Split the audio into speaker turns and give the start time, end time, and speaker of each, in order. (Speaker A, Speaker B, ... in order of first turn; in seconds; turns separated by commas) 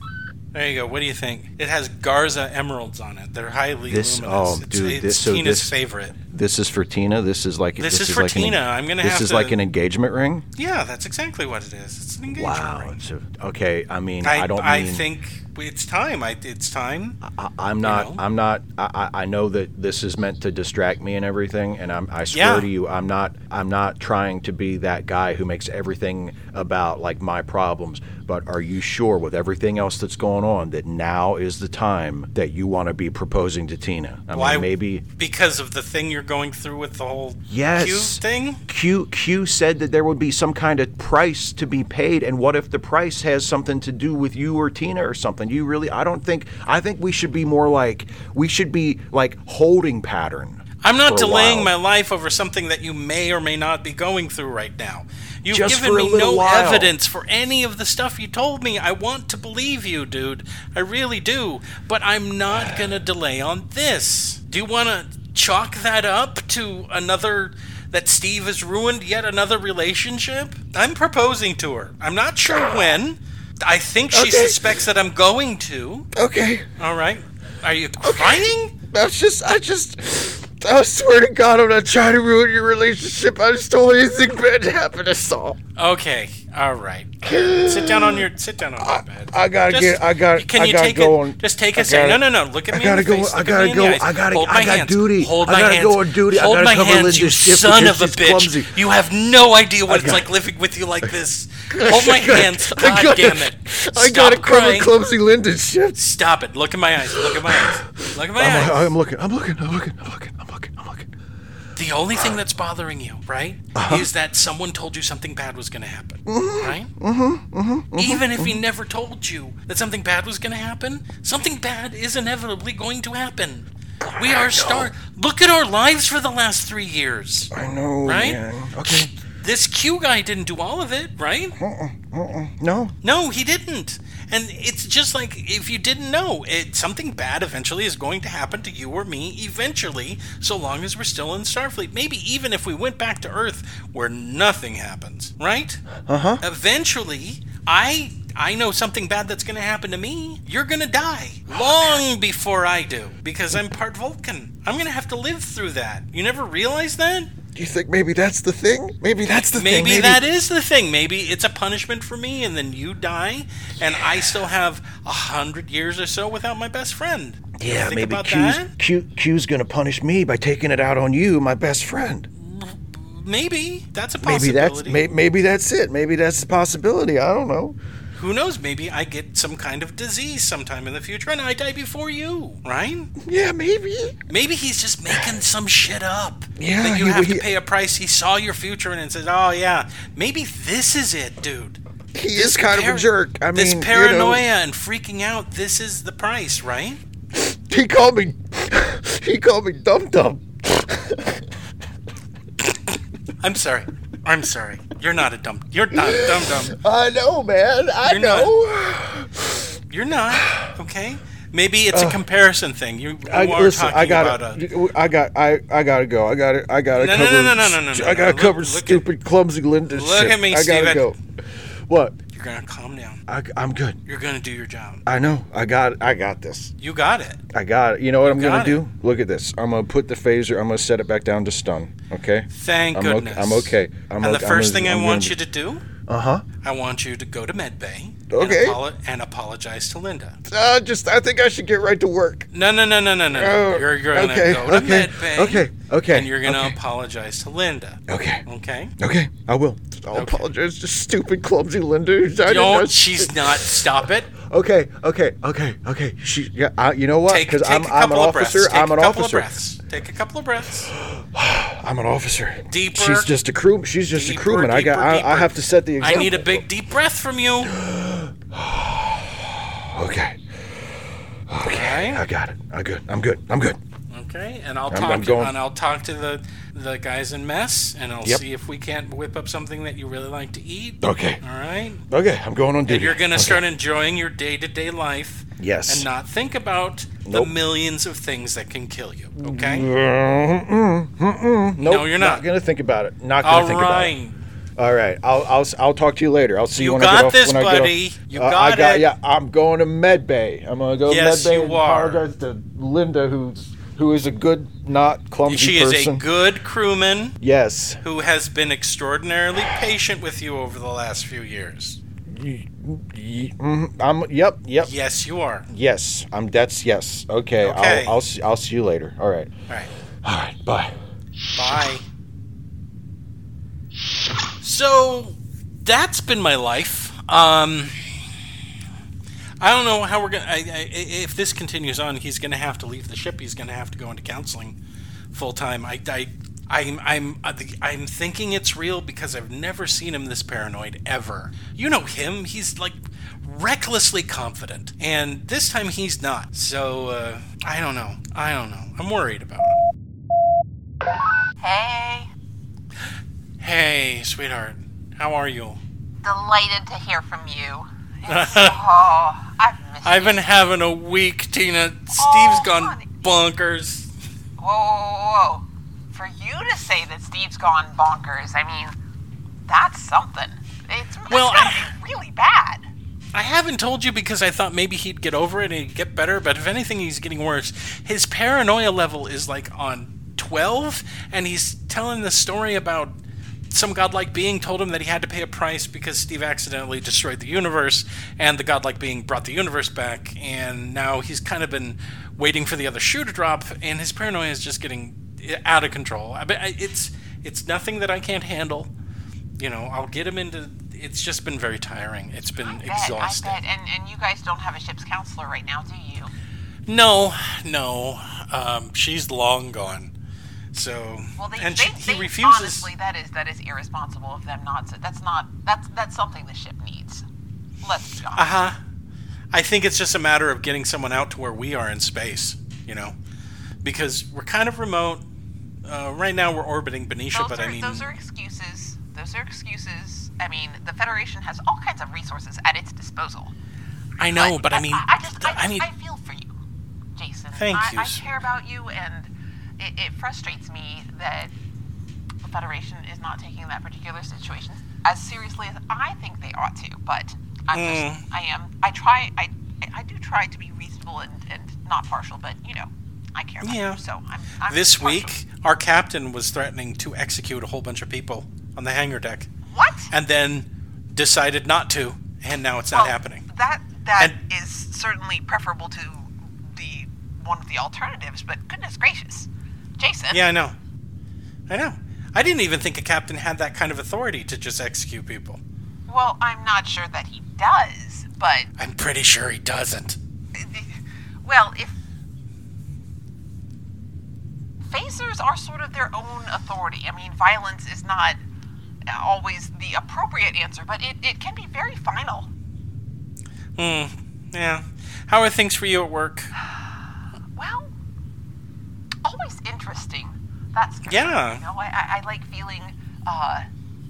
Speaker A: 0.5-6.2, Speaker B: 3.9-10.5, Speaker A: 7.8-9.6, Speaker A: 10.6-13.0, Speaker B: 12.3-15.1, Speaker A: 14.2-17.2, Speaker B: 17.2-35.0, Speaker A: 17.8-18.2, Speaker A: 22.3-22.7, Speaker A: 34.3-38.6, Speaker B: 37.5-51.7, Speaker A: 50.8-76.1, Speaker B: 55.5-56.9, Speaker B: 72.5-73.0, Speaker B: 74.1-74.7, Speaker B: 76.1-76.7, Speaker A: 76.8-78.8, Speaker B: 78.0-85.6, Speaker A: 85.8-104.9, Speaker B: 87.2-88.3, Speaker B: 88.8-98.8, Speaker B: 99.9-100.3, Speaker B: 101.7-106.0, Speaker A: 106.0-108.9, Speaker B: 107.1-111.1, Speaker A: 111.8-116.9, Speaker B: 113.8-114.1, Speaker B: 116.3-118.6, Speaker A: 118.0-127.5, Speaker B: 124.1-124.9, Speaker B: 127.5-129.1, Speaker A: 128.0-131.6, Speaker B: 131.6-132.9, Speaker A: 133.0-145.8, Speaker B: 146.0-146.4, Speaker A: 146.4-157.3, Speaker B: 151.6-151.9, Speaker B: 157.6-160.2, Speaker A: 159.3-168.7, Speaker B: 167.6-172.3, Speaker A: 172.3-175.0, Speaker B: 174.2-177.8, Speaker A: 178.2-183.1, Speaker B: 183.2-184.2, Speaker A: 184.3-191.8, Speaker B: 186.6-187.4, Speaker B: 192.1-194.4, Speaker A: 192.3-197.0, Speaker B: 197.3-201.5, Speaker A: 202.6-206.8, Speaker B: 205.9-209.8, Speaker A: 208.0-208.5, Speaker A: 209.9-214.6, Speaker B: 210.3-210.7, Speaker B: 211.9-212.2, Speaker B: 213.3-221.2, Speaker A: 216.9-219.1, Speaker A: 219.9-221.1, Speaker B: 221.9-222.2, Speaker A: 222.3-223.2, Speaker B: 223.3-224.0, Speaker A: 224.1-225.0, Speaker B: 225.1-226.7, Speaker A: 226.8-227.4, Speaker B: 227.5-235.4, Speaker A: 228.3-228.8, Speaker A: 232.5-235.8, Speaker B: 236.0-236.4, Speaker A: 236.6-240.4, Speaker B: 238.3-238.8, Speaker B: 240.5-242.5, Speaker A: 242.5-248.9, Speaker B: 243.3-246.8, Speaker B: 248.1-248.4, Speaker B: 249.0-259.5, Speaker A: 250.1-250.4, Speaker A: 252.4-254.3, Speaker A: 257.3-260.9, Speaker B: 260.9-266.6, Speaker A: 262.7-263.3, Speaker A: 264.1-267.8, Speaker B: 267.6-270.9, Speaker B: 271.5-273.8, Speaker A: 271.7-272.2, Speaker A: 274.1-282.0, Speaker B: 274.9-275.6, Speaker B: 281.0-281.4, Speaker B: 282.1-283.6, Speaker A: 282.9-289.9, Speaker B: 285.6-286.1, Speaker B: 287.2-287.5, Speaker B: 289.4-294.1, Speaker A: 291.8-292.4, Speaker A: 293.4-294.4, Speaker B: 294.8-306.2, Speaker A: 296.8-299.1, Speaker A: 301.1-302.2, Speaker A: 305.5-307.4, Speaker B: 307.4-308.0, Speaker A: 308.0-312.0, Speaker B: 312.3-314.9, Speaker A: 314.8-315.7, Speaker B: 315.7-319.5, Speaker A: 317.6-318.2, Speaker B: 320.2-320.9, Speaker A: 321.6-322.1, Speaker A: 324.6-328.1, Speaker A: 329.6-334.8, Speaker A: 335.3-349.8, Speaker C: 351.6-352.3, Speaker A: 353.6-355.8, Speaker C: 356.2-360.5, Speaker A: 358.3-358.8, Speaker A: 360.0-364.1, Speaker C: 362.2-363.1, Speaker C: 364.6-369.0, Speaker C: 369.7-372.8, Speaker A: 371.3-371.9, Speaker A: 373.3-383.2, Speaker A: 383.7-398.9, Speaker A: 399.6-403.6, Speaker C: 402.6-406.3, Speaker A: 406.9-410.1, Speaker A: 410.7-412.9, Speaker C: 411.4-417.2, Speaker C: 417.8-418.7, Speaker A: 418.3-418.8, Speaker A: 419.5-423.2, Speaker A: 423.8-425.2, Speaker A: 425.9-428.1, Speaker C: 427.3-433.5, Speaker A: 434.2-435.9, Speaker C: 434.4-436.5, Speaker C: 437.2-441.5, Speaker A: 437.6-438.3, Speaker C: 442.4-455.3, Speaker A: 447.7-448.2, Speaker A: 453.6-454.0, Speaker A: 454.7-459.5, Speaker C: 459.7-460.1, Speaker A: 460.1-463.4, Speaker C: 462.9-470.4, Speaker A: 470.3-470.8, Speaker A: 471.7-475.6, Speaker C: 476.1-478.7, Speaker A: 478.8-480.2, Speaker C: 480.6-481.9, Speaker C: 484.9-488.4, Speaker C: 489.1-492.5, Speaker A: 493.8-496.5, Speaker C: 497.6-497.9, Speaker C: 499.2-503.7, Speaker A: 501.1-501.6